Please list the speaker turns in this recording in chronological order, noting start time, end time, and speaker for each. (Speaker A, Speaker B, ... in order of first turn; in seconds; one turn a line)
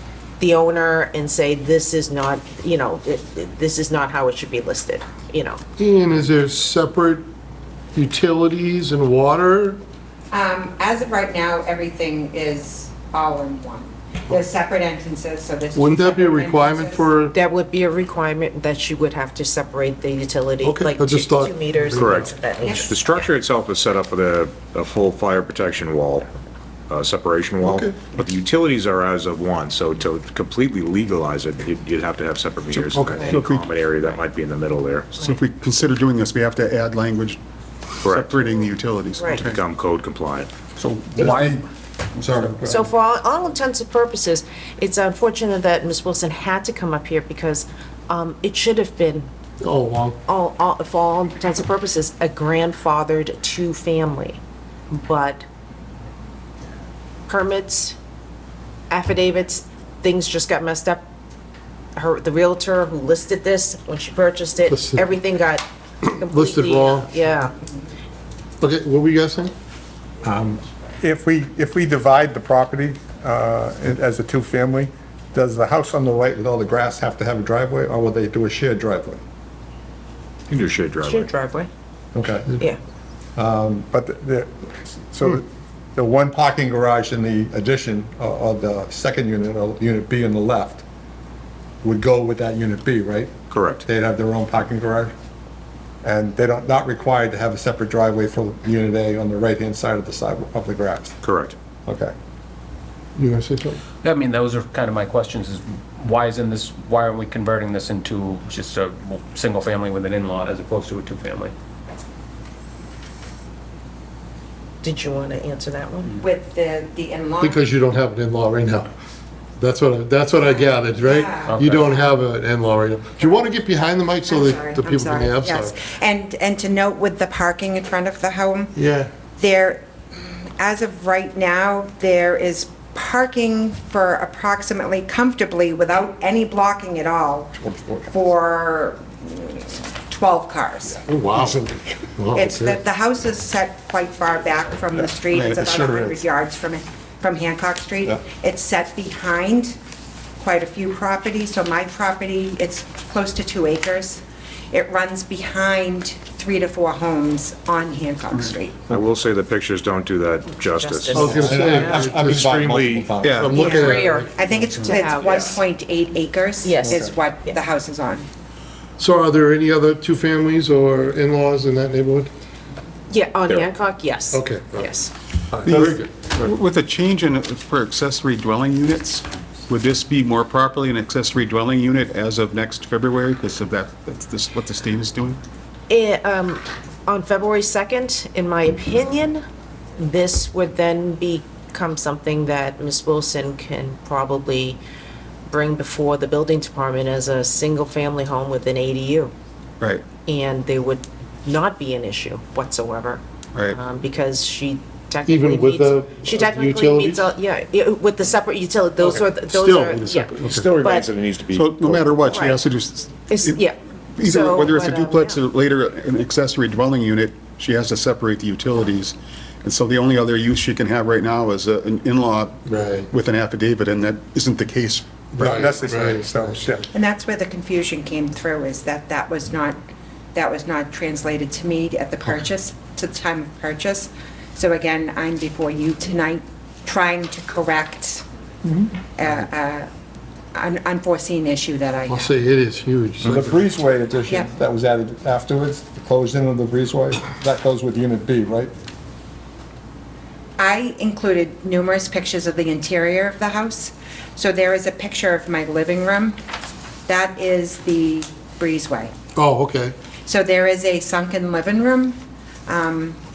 Speaker A: 0.4-5.6
Speaker B: 5.8-7.3
Speaker B: 7.9-9.8
Speaker C: 10.3-17.1
Speaker B: 15.8-17.4
Speaker A: 17.3-22.9
Speaker B: 20.6-22.3
Speaker D: 22.0-26.3
Speaker C: 22.6-22.9
Speaker D: 26.9-35.2
Speaker E: 32.8-33.6
Speaker E: 35.2-37.4
Speaker E: 38.0-39.6
Speaker D: 38.0-38.4
Speaker A: 39.2-39.5
Speaker D: 39.4-40.5
Speaker F: 40.8-41.6
Speaker G: 41.2-41.6
Speaker F: 42.2-42.8
Speaker G: 42.2-42.9
Speaker A: 42.7-49.3
Speaker B: 49.6-50.2
Speaker A: 50.3-55.5
Speaker A: 57.3-58.0
Speaker A: 58.9-61.1
Speaker A: 62.0-67.5
Speaker B: 64.7-65.1
Speaker B: 66.0-67.1
Speaker B: 68.6-69.5
Speaker G: 70.2-79.2
Speaker D: 80.5-81.3
Speaker A: 81.0-81.7
Speaker G: 82.1-82.6
Speaker G: 83.4-90.8
Speaker G: 91.8-95.1
Speaker D: 93.5-93.8
Speaker G: 96.0-101.2
Speaker D: 101.2-101.5
Speaker G: 101.9-102.1
Speaker B: 103.2-103.8
Speaker F: 104.0-111.5
Speaker A: 114.8-116.1
Speaker C: 116.2-117.7
Speaker B: 117.4-118.9
Speaker B: 119.6-125.8
Speaker C: 120.5-121.6
Speaker F: 121.4-122.0
Speaker C: 124.2-128.7
Speaker B: 128.8-129.1
Speaker C: 129.4-137.6
Speaker G: 137.6-138.1
Speaker C: 138.1-141.0
Speaker B: 141.1-142.8
Speaker G: 141.4-141.8
Speaker C: 142.3-149.8
Speaker E: 145.3-145.8
Speaker G: 145.8-146.1
Speaker C: 150.4-158.8
Speaker D: 158.9-163.1
Speaker A: 160.7-162.0
Speaker B: 161.1-162.6
Speaker G: 161.3-163.5
Speaker E: 163.2-163.6
Speaker B: 163.3-164.3
Speaker C: 163.5-168.3
Speaker A: 164.8-165.6
Speaker D: 165.2-165.6
Speaker A: 166.6-167.6
Speaker B: 169.0-172.3
Speaker A: 173.1-175.1
Speaker B: 174.3-174.9
Speaker E: 175.6-185.4
Speaker B: 175.7-176.1
Speaker A: 185.9-189.4
Speaker A: 190.0-194.8
Speaker A: 195.5-199.3
Speaker A: 200.2-211.1
Speaker B: 205.3-207.3
Speaker D: 209.6-212.4
Speaker E: 211.5-213.6
Speaker A: 212.3-212.6
Speaker A: 213.3-215.4
Speaker E: 214.2-225.7
Speaker B: 222.7-223.1
Speaker B: 225.4-226.6
Speaker G: 225.4-226.9
Speaker C: 226.9-229.8
Speaker C: 230.3-238.2
Speaker G: 238.7-238.9
Speaker C: 239.2-239.9
Speaker C: 240.5-242.3
Speaker B: 242.1-243.6
Speaker G: 243.2-248.7
Speaker C: 250.6-256.4
Speaker C: 257.1-259.1
Speaker B: 259.4-259.9
Speaker C: 260.3-263.2